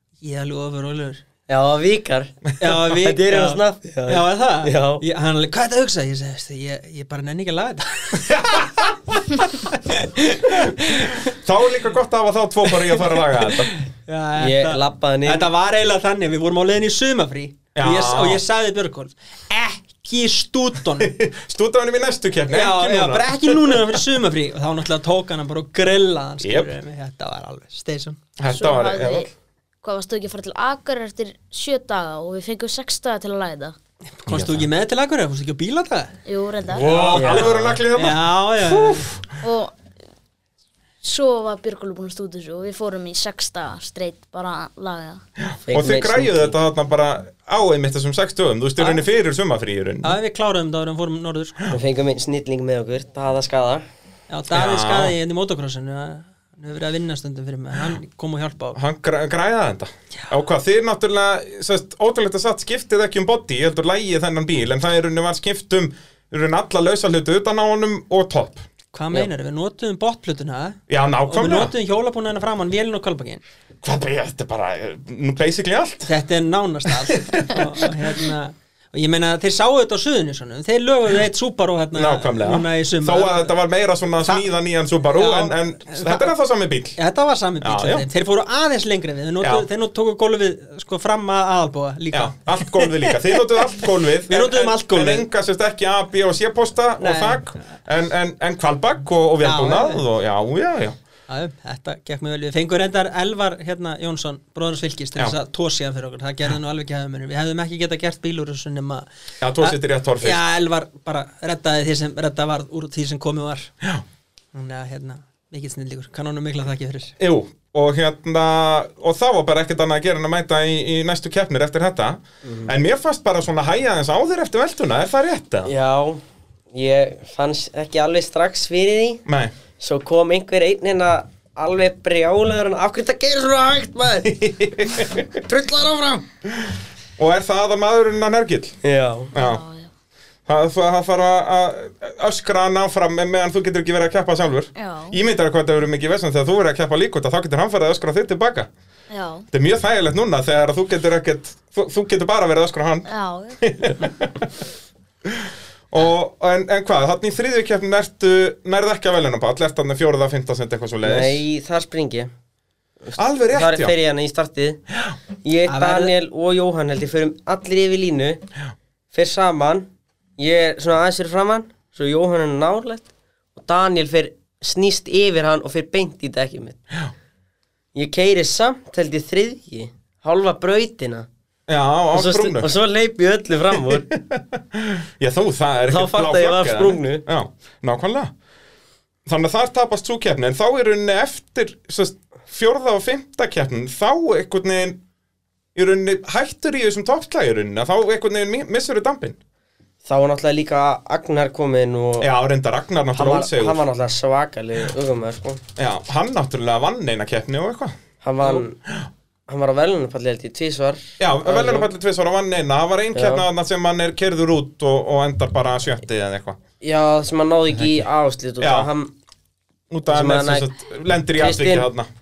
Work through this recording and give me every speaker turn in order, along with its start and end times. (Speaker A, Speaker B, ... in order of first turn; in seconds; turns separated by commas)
Speaker A: 0.2-1.2, Speaker B: 1.5-5.0, Speaker A: 2.6-11.3, Speaker C: 8.3-8.9, Speaker C: 10.5-13.7, Speaker A: 13.4-21.1, Speaker B: 14.4-15.5, Speaker C: 17.8-18.4, Speaker C: 21.0-24.0, Speaker A: 22.5-28.2, Speaker C: 26.4-26.7, Speaker C: 28.4-29.3, Speaker D: 28.5-29.3, Speaker D: 29.8-33.8, Speaker A: 34.2-36.1, Speaker C: 34.3-34.7, Speaker D: 36.3-37.5, Speaker C: 36.7-39.2, Speaker B: 37.1-37.5, Speaker A: 37.7-39.1, Speaker D: 39.4-39.8, Speaker D: 41.0-45.2, Speaker C: 45.4-50.2, Speaker B: 45.7-46.5, Speaker A: 50.0-51.7, Speaker B: 51.7-53.9, Speaker A: 54.3-58.8, Speaker C: 54.5-55.1, Speaker C: 58.8-68.6, Speaker A: 68.9-73.4, Speaker C: 70.9-71.7, Speaker C: 73.8-76.1, Speaker A: 76.1-83.5, Speaker C: 76.9-77.9, Speaker C: 81.9-87.0, Speaker A: 85.1-86.3, Speaker A: 87.0-95.3, Speaker C: 87.6-88.1, Speaker C: 89.4-89.7, Speaker C: 92.1-101.0, Speaker A: 97.0-97.7, Speaker A: 99.4-100.0, Speaker A: 101.3-109.1, Speaker C: 109.4-110.4, Speaker A: 109.6-113.7, Speaker A: 114.5-117.2, Speaker C: 117.2-125.7, Speaker B: 122.4-122.7, Speaker B: 125.7-129.2, Speaker C: 129.3-129.5, Speaker B: 129.8-136.3, Speaker C: 134.3-135.3, Speaker C: 136.6-138.8, Speaker B: 138.8-139.3, Speaker C: 139.3-139.6, Speaker D: 139.3-139.9, Speaker C: 140.5-148.7, Speaker D: 144.8-145.2, Speaker D: 149.1-149.5, Speaker C: 149.5-153.1, Speaker D: 153.1-153.6, Speaker C: 153.6-154.5, Speaker C: 155.3-161.4, Speaker B: 161.0-162.3, Speaker B: 163.0-164.8, Speaker C: 163.2-163.9, Speaker B: 165.4-168.4, Speaker A: 165.7-166.1, Speaker B: 169.1-176.8, Speaker B: 177.9-181.3, Speaker C: 181.7-182.7, Speaker B: 182.1-184.1, Speaker C: 183.8-188.3, Speaker B: 185.9-187.2, Speaker C: 189.3-195.0, Speaker C: 195.8-199.4, Speaker B: 200.1-202.3, Speaker C: 202.2-203.8, Speaker B: 203.1-205.6, Speaker C: 205.8-209.1, Speaker B: 208.2-208.8, Speaker B: 209.5-211.9, Speaker C: 211.2-216.6, Speaker B: 213.2-213.4, Speaker B: 216.8-219.1, Speaker C: 217.8-218.1, Speaker C: 218.6-218.9, Speaker C: 219.9-222.1, Speaker B: 220.1-220.7, Speaker B: 221.4-221.9